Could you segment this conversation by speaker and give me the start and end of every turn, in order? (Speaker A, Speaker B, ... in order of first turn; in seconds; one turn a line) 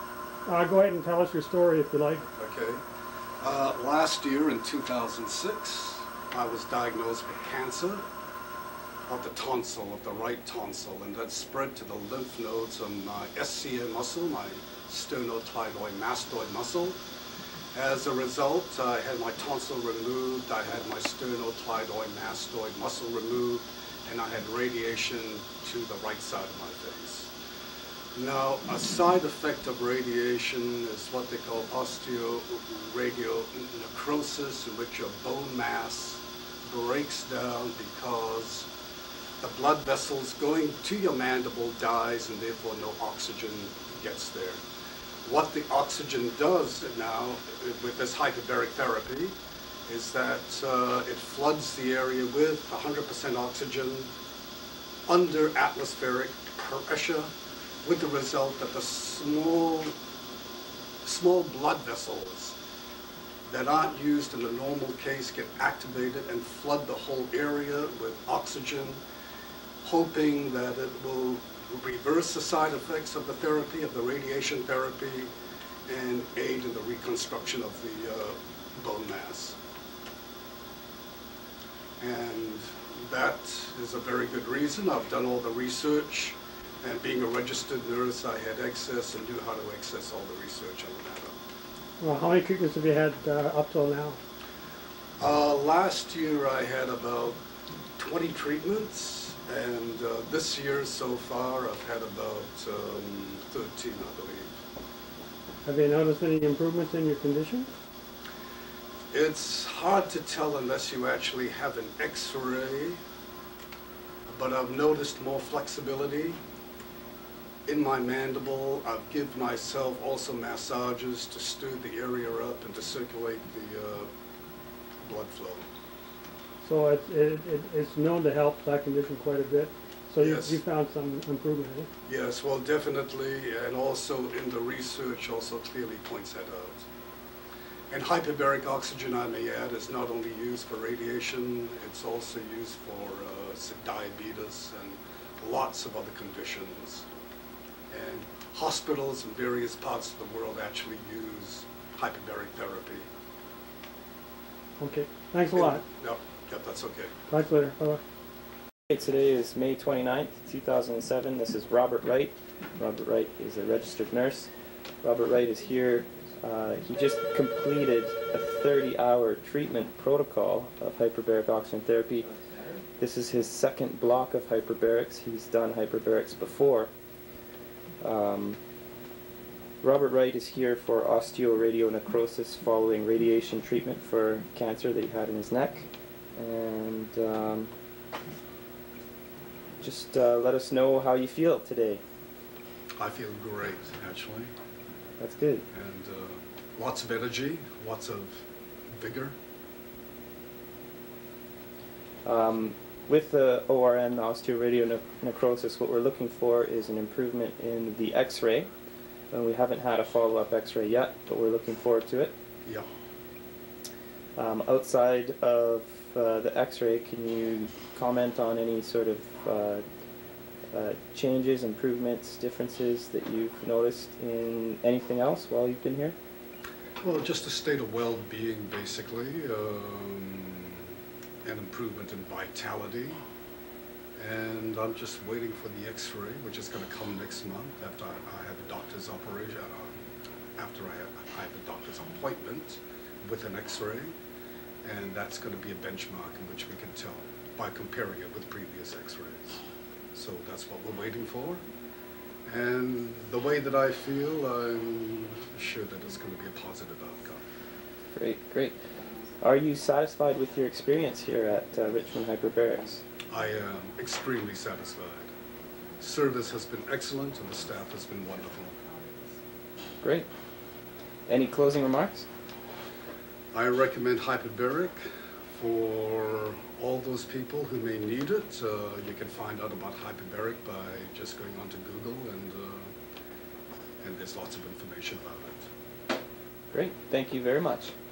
Speaker A: 0.5-2.2
Speaker B: 2.3-2.8
Speaker B: 3.4-8.0
Speaker B: 9.1-17.0
Speaker B: 17.7-27.3
Speaker B: 28.1-38.7
Speaker B: 39.4-44.6
Speaker B: 45.2-49.3
Speaker B: 49.9-54.1
Speaker B: 55.1-57.3
Speaker B: 57.8-59.9
Speaker B: 61.0-62.6
Speaker B: 63.5-69.0
Speaker B: 69.8-75.3
Speaker B: 75.9-79.6
Speaker B: 82.0-91.3
Speaker A: 92.0-94.2
Speaker B: 95.2-97.4
Speaker B: 98.0-104.5
Speaker A: 105.6-107.7
Speaker B: 109.1-113.0
Speaker B: 114.3-116.4
Speaker B: 117.7-124.1
Speaker B: 125.0-125.7
Speaker A: 126.6-131.9
Speaker B: 130.2-130.6
Speaker B: 132.1-136.9
Speaker B: 137.9-147.1
Speaker B: 147.9-153.1
Speaker A: 154.8-155.8
Speaker B: 155.5-157.1
Speaker A: 157.3-158.0
Speaker C: 158.9-164.5
Speaker C: 165.0-172.3
Speaker C: 173.0-176.9
Speaker C: 178.0-178.6
Speaker C: 179.8-187.7
Speaker C: 189.8-192.0
Speaker B: 193.0-194.5
Speaker C: 195.2-195.7
Speaker B: 195.7-198.4
Speaker B: 198.9-199.3
Speaker C: 202.2-208.7
Speaker C: 209.3-212.3
Speaker C: 214.4-219.8
Speaker C: 220.7-226.2
Speaker B: 227.0-233.2
Speaker B: 234.2-240.0
Speaker B: 240.6-244.1
Speaker B: 244.8-249.6
Speaker B: 250.1-251.6
Speaker B: 252.4-257.4
Speaker C: 258.1-258.8
Speaker C: 259.4-263.0
Speaker B: 263.3-265.3
Speaker B: 266.0-268.8
Speaker C: 270.0-270.3
Speaker C: 271.3-272.2
Speaker B: 273.5-282.9
Speaker B: 284.0-285.7
Speaker C: 286.7-287.9